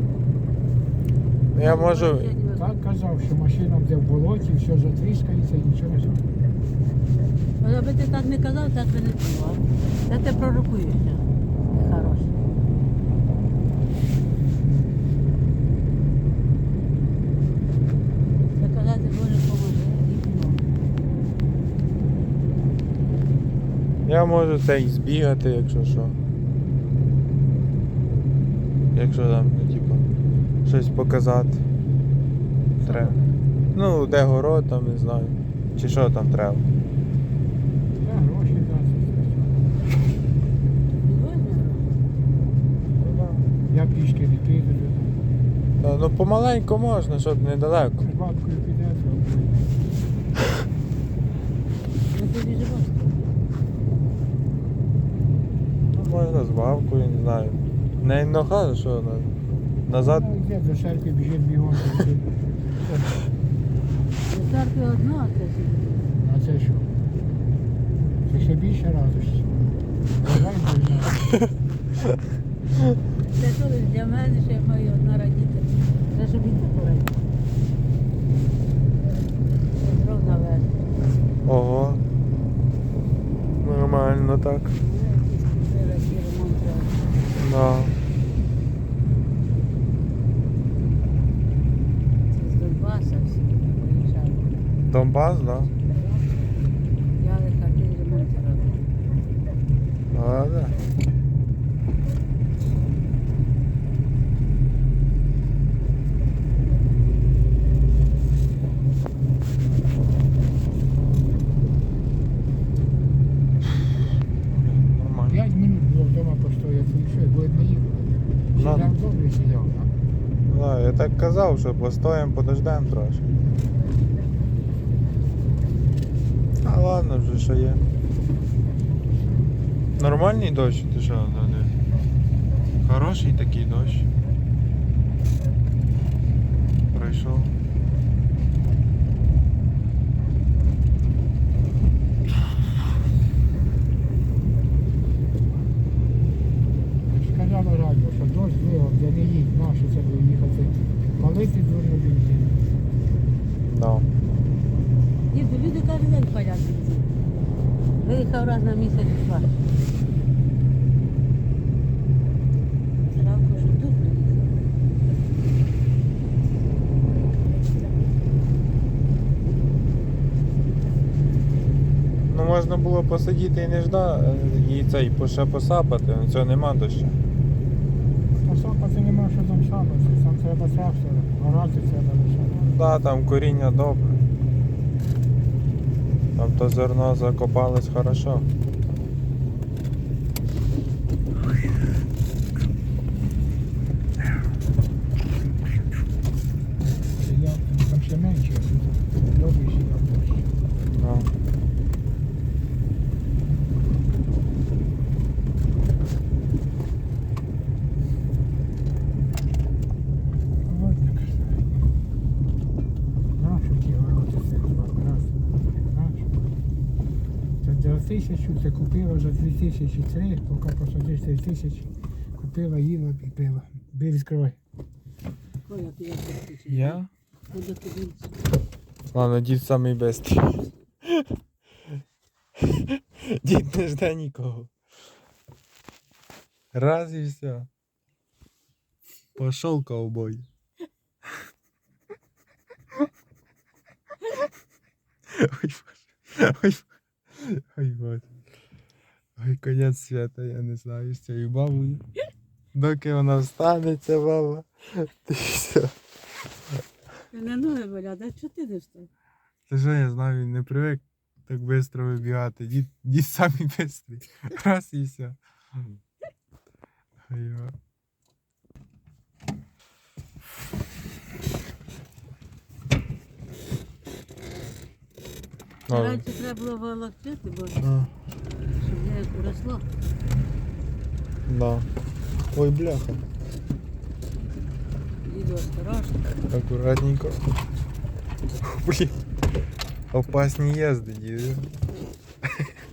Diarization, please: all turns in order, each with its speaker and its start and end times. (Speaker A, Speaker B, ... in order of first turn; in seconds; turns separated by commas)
Speaker A: 1.5-2.3, Speaker B: 1.6-2.7, Speaker C: 2.5-6.4, Speaker B: 7.6-12.3, Speaker B: 18.6-20.6, Speaker A: 24.0-26.2, Speaker A: 28.9-30.0, Speaker A: 30.6-31.6, Speaker C: 32.8-33.3, Speaker A: 32.8-33.2, Speaker A: 33.7-36.7, Speaker C: 37.9-39.7, Speaker B: 41.0-41.9, Speaker A: 43.0-43.5, Speaker C: 43.7-45.2, Speaker A: 45.8-48.1, Speaker C: 48.0-49.8, Speaker B: 52.1-53.1, Speaker A: 55.9-60.2, Speaker C: 59.9-63.2, Speaker B: 64.3-66.0, Speaker C: 66.2-67.0, Speaker C: 68.2-69.5, Speaker C: 70.2-71.3, Speaker B: 73.2-77.2, Speaker B: 79.8-80.7, Speaker A: 81.4-82.0, Speaker A: 83.6-84.8, Speaker B: 84.8-87.2, Speaker A: 87.4-88.0, Speaker B: 92.3-94.6, Speaker A: 94.9-95.7, Speaker B: 95.7-96.3, Speaker B: 97.2-98.8, Speaker A: 100.1-100.8, Speaker A: 114.5-115.4, Speaker C: 115.3-119.9, Speaker A: 118.5-119.0, Speaker A: 120.5-123.3, Speaker A: 126.6-127.8, Speaker A: 130.0-131.7, Speaker A: 132.8-134.1, Speaker A: 136.9-137.5, Speaker C: 147.1-152.6, Speaker A: 153.7-154.1, Speaker B: 155.3-157.1, Speaker B: 158.0-159.6, Speaker B: 163.1-164.5, Speaker A: 172.3-177.2, Speaker C: 178.4-182.7, Speaker A: 182.6-184.2, Speaker A: 186.3-188.5, Speaker C: 197.0-200.5, Speaker A: 200.9-201.3, Speaker C: 210.6-211.7, Speaker C: 213.3-216.4, Speaker C: 217.6-224.6, Speaker B: 225.7-228.4, Speaker A: 226.7-227.1, Speaker A: 229.1-231.3, Speaker A: 232.7-234.7, Speaker A: 236.7-237.7, Speaker A: 239.3-240.4, Speaker A: 245.3-248.3, Speaker A: 249.4-252.0, Speaker A: 252.7-255.9, Speaker B: 257.3-259.1, Speaker A: 259.7-265.4, Speaker A: 267.3-267.8, Speaker B: 275.9-277.8, Speaker A: 275.9-276.2, Speaker A: 277.8-278.1, Speaker B: 278.8-279.8, Speaker A: 281.5-281.9, Speaker A: 282.5-283.2, Speaker B: 285.2-286.2, Speaker A: 286.5-287.4, Speaker A: 288.6-289.1, Speaker A: 290.1-291.7, Speaker A: 292.4-292.7